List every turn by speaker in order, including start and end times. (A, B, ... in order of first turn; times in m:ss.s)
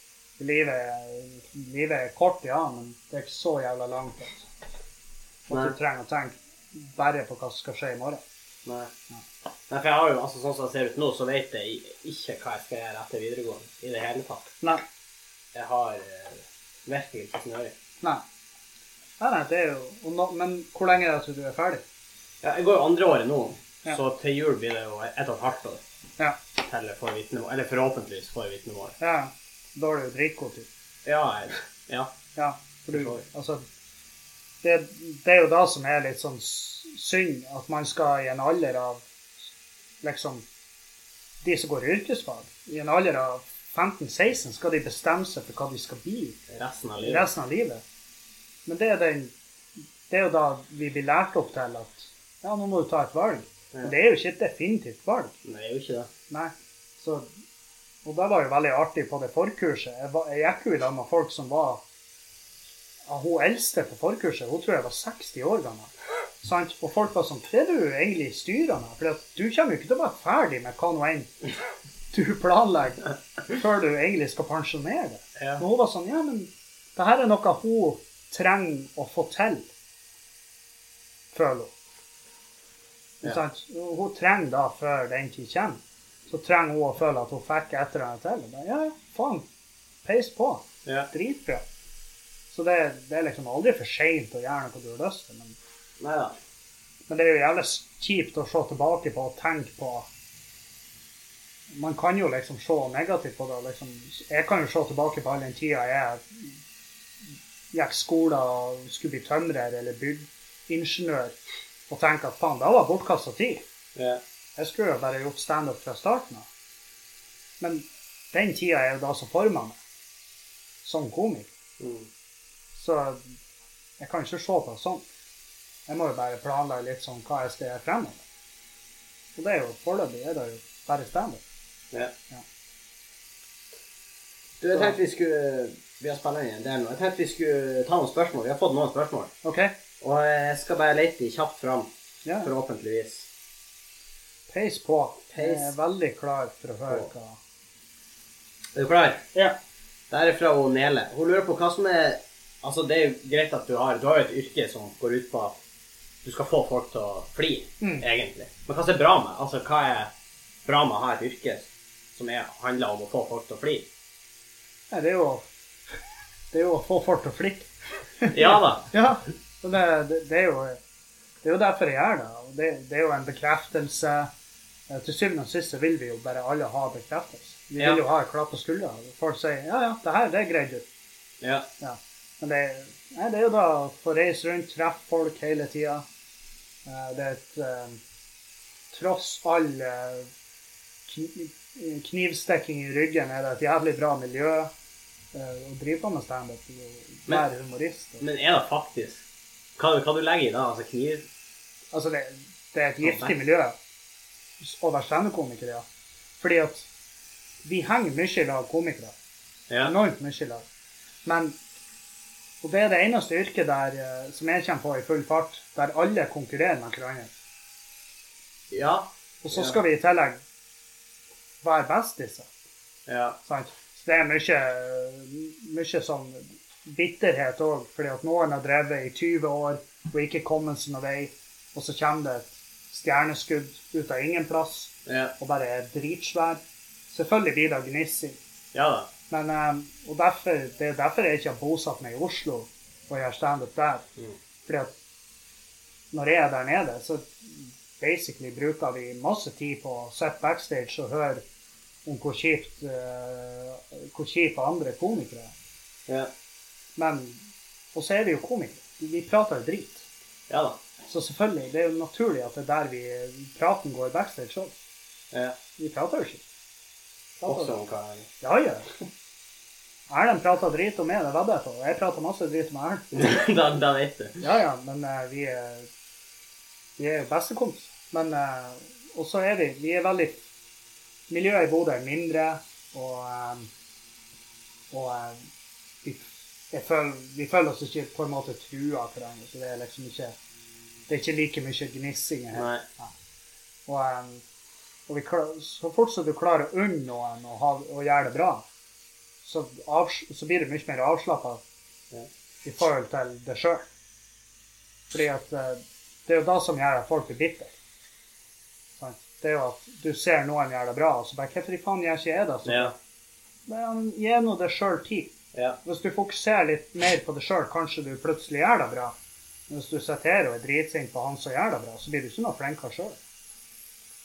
0:00.4-0:04.5 A
0:05.5-0:08.2 A
0:05.5-0:05.8 B
0:08.6-0:08.9 B
0:09.7-0:14.5 B
0:15.5-0:17.7 B
0:19.2-0:21.8 A
0:22.4-0:25.8 B
0:26.6-0:29.0 B
0:29.0-0:30.7 A
0:31.0-0:32.1 B
0:32.4-0:33.6 A
0:32.9-0:33.2 B
0:34.6-0:39.0 A
0:40.0-0:40.4 A
0:41.4-0:46.4 A
0:46.5-0:47.3 B
0:47.0-0:47.8 A
0:48.7-0:49.3 A
0:50.1-0:55.3 A
0:55.4-0:56.1 B
0:56.3-0:57.3 A
0:58.0-1:01.8 A
1:03.1-1:11.3 A
1:12.1-1:19.7 A
1:15.4-1:15.6 B
1:21.3-1:21.7 A
1:23.2-1:29.4 A
1:30.0-1:31.6 A
1:30.8-1:31.1 B
1:32.5-1:35.6 A
1:36.0-1:36.4 B
1:37.1-1:40.1 A
1:41.7-1:46.5 A
1:47.7-1:51.4 A
1:51.9-1:53.6 A
1:54.0-1:54.2 B
1:54.6-1:56.5 A
1:57.6-1:59.8 A
2:00.8-2:01.5 A
2:01.8-2:02.1 B
2:02.8-2:03.2 A
2:04.0-2:05.0 A
2:05.9-2:08.2 A
2:09.4-2:11.4 A
2:14.6-2:19.3 B
2:19.4-2:19.7 A
2:20.0-2:21.9 B
2:22.2-2:22.5 A
2:22.4-2:23.3 B
2:24.5-2:27.4 A
2:25.3-2:25.7 B
2:28.8-2:29.2 B
2:30.1-2:35.6 B
2:36.2-2:40.1 B
2:37.8-2:38.1 A
2:40.6-2:43.9 B
2:44.9-2:45.4 A
2:46.5-2:47.7 A
2:48.2-2:50.8 A
2:48.3-2:48.9 B
2:51.4-2:54.3 A
2:54.9-3:00.8 A
2:57.8-2:58.0 B
3:01.4-3:01.7 B
3:01.8-3:06.0 A
3:06.9-3:08.0 A
3:08.9-3:10.3 A
3:11.1-3:14.7 A
3:15.3-3:18.2 A
3:18.2-3:19.2 B
3:19.8-3:21.3 B
3:21.9-3:23.8 A
3:23.0-3:23.3 B
3:24.6-3:25.8 A
3:26.4-3:26.9 A
3:27.6-3:29.1 A
3:29.8-3:30.6 A
3:31.2-3:31.6 A
3:32.6-3:37.3 A
3:38.7-3:39.8 B
3:39.4-3:40.4 A
3:41.6-3:42.5 A
3:43.1-3:43.4 B
3:43.5-3:58.4 A
3:55.1-3:55.3 B
3:58.7-3:59.1 B
3:59.3-4:04.0 A
4:04.7-4:04.9 A
4:06.1-4:11.4 A
4:12.1-4:15.5 A
4:17.0-4:17.4 A
4:17.9-4:20.1 A
4:20.5-4:20.8 B
4:21.1-4:24.7 A
4:25.3-4:25.6 B
4:25.8-4:26.4 A
4:27.4-4:27.8 A
4:27.5-4:28.3 B
4:28.4-4:28.9 A
4:30.1-4:33.1 A
4:33.1-4:34.4 B
4:34.4-4:35.9 A
4:37.0-4:40.4 A
4:41.3-4:43.7 A
4:44.9-4:45.4 A
4:46.0-4:50.4 A
4:51.1-4:53.1 A
4:52.5-4:52.8 B
4:53.9-4:54.4 A
4:55.1-4:58.6 A
4:59.4-5:01.6 A
5:02.6-5:03.8 A
5:05.1-5:07.7 A
5:09.0-5:12.9 A
5:12.6-5:12.9 B
5:13.7-5:15.3 A
5:15.8-5:19.2 A
5:19.7-5:23.2 A